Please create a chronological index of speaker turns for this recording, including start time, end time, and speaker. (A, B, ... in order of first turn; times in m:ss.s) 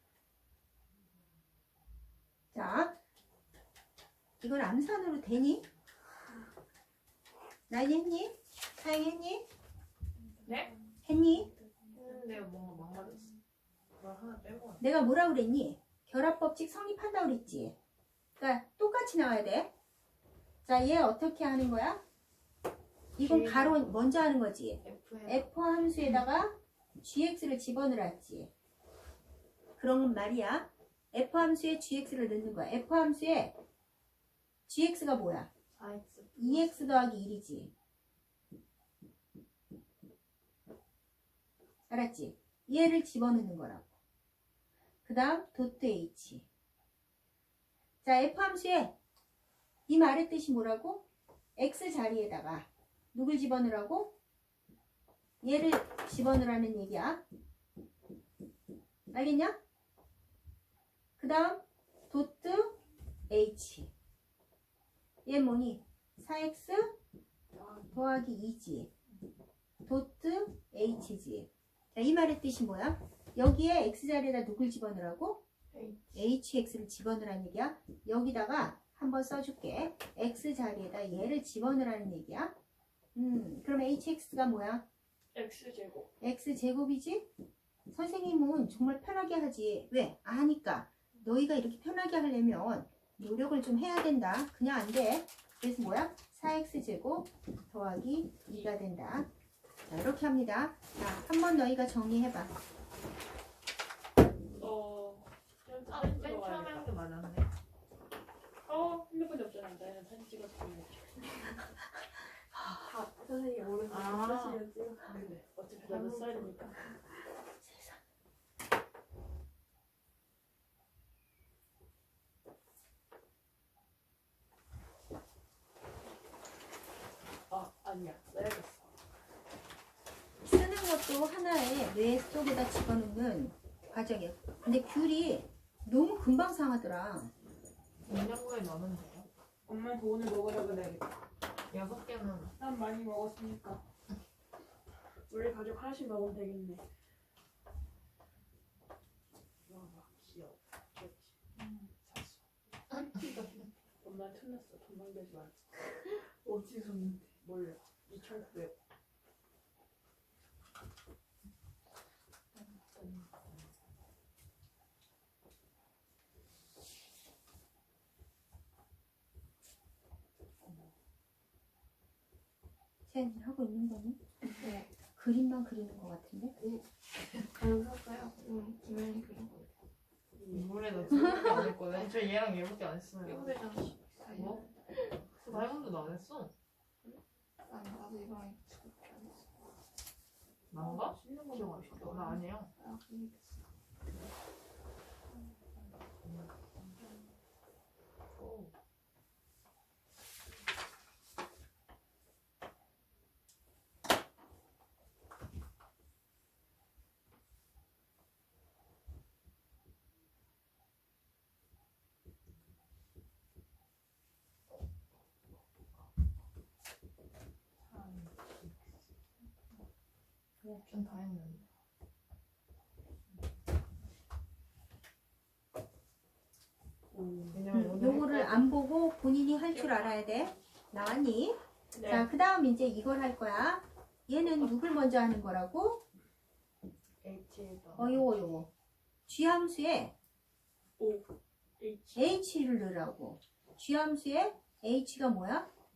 0:02.5-0:02.9 A
0:04.4-0:05.7 A
0:07.7-0:09.5 A
0:10.4-0:12.5 B
0:11.0-0:11.5 A
0:11.9-0:13.3 C
0:14.0-0:14.8 C
0:14.8-0:17.8 A
0:18.4-0:19.7 A
0:20.6-0:22.0 A
0:23.2-0:28.5 A
0:23.2-0:24.0 C
0:24.8-0:25.4 C
0:29.8-0:33.6 A
0:34.7-0:35.5 A
0:35.8-0:36.5 C
0:36.0-0:36.7 B
0:36.4-0:37.7 A
0:41.9-0:43.9 A
0:45.0-0:46.5 A
0:48.0-0:49.0 A
0:49.9-0:51.0 A
0:51.6-0:54.2 A
0:55.4-0:57.2 A
0:59.1-0:59.6 A
1:01.2-1:02.8 A
1:03.3-1:03.9 A
1:05.2-1:07.0 A
1:07.6-1:07.8 D
1:07.9-1:08.9 A
1:09.9-1:15.4 A
1:15.7-1:16.2 B
1:16.1-1:22.6 A
1:23.2-1:24.8 A
1:25.3-1:26.1 D
1:26.2-1:27.3 A
1:27.9-1:39.3 A
1:39.9-1:42.5 A
1:44.6-1:46.8 D
1:45.9-1:47.5 C
1:48.7-1:51.5 D
1:52.5-1:52.9 A
1:52.9-1:54.7 B
1:53.8-1:56.8 D
1:53.9-1:56.4 C
1:57.6-1:58.0 A
2:07.5-2:08.9 D
2:10.4-2:17.3 A
2:18.1-2:19.3 C
2:19.7-2:21.1 D
2:21.7-2:22.5 C
2:22.6-2:23.8 D
2:25.3-2:26.8 D
2:29.7-2:32.4 D
2:34.0-2:35.5 D
2:37.4-2:38.7 D
2:43.0-2:43.2 C
2:53.1-2:54.2 A
2:54.6-2:54.9 B
2:55.2-2:56.5 A
2:56.6-2:56.8 B
2:57.5-2:59.7 B
3:00.4-3:01.5 D
3:00.5-3:03.6 C
3:01.2-3:02.0 B
3:03.2-3:05.2 B
3:04.4-3:04.6 C
3:05.3-3:06.5 C
3:07.7-3:09.7 B
3:10.7-3:12.7 C
3:10.8-3:12.4 D
3:12.7-3:13.6 B
3:16.2-3:16.5 C
3:18.4-3:18.7 C
3:37.9-3:38.8 C
3:40.6-3:40.9 D
3:40.9-3:41.7 C
3:47.1-3:47.6 D
3:47.5-3:48.7 C
3:47.7-3:56.0 A
3:50.0-3:50.3 D
3:51.9-3:52.3 D
3:57.2-3:58.4 C
3:58.0-3:58.7 A
3:59.3-4:00.1 A
4:01.0-4:01.3 D
4:01.8-4:02.4 D
4:02.2-4:05.7 A